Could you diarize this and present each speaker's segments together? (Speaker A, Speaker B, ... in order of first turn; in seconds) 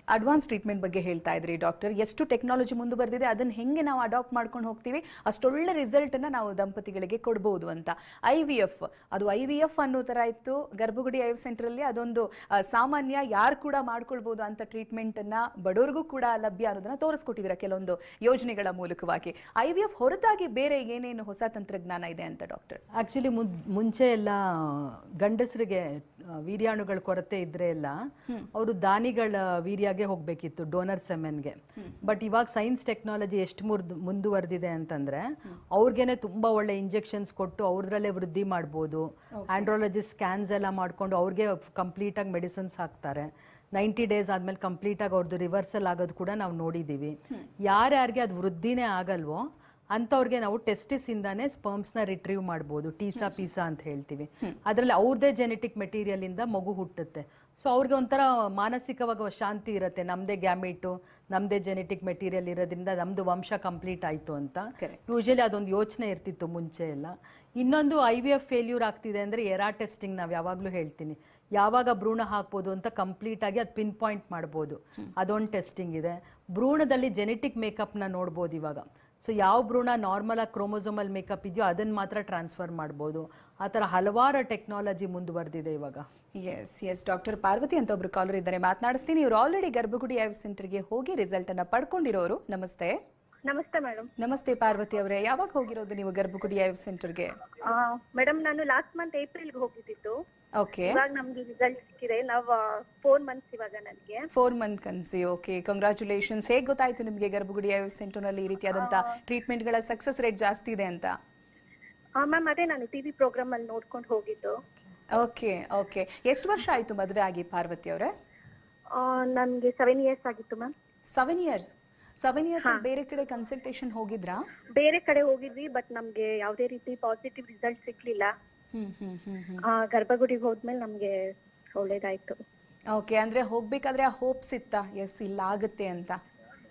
Speaker A: 0.1-22.8, 39.3-39.7, 86.4-93.0, 94.2-97.4, 100.5-101.0, 104.3-111.2, 115.1-118.1, 121.1-124.5, 128.7-129.7, 132.9-136.2
Speaker B: 22.9-86.1
Speaker C: 93.5-94.1, 97.6-100.2, 100.9-104.3, 112.2-114.6, 118.9-120.7, 124.7-128.3, 129.6-132.4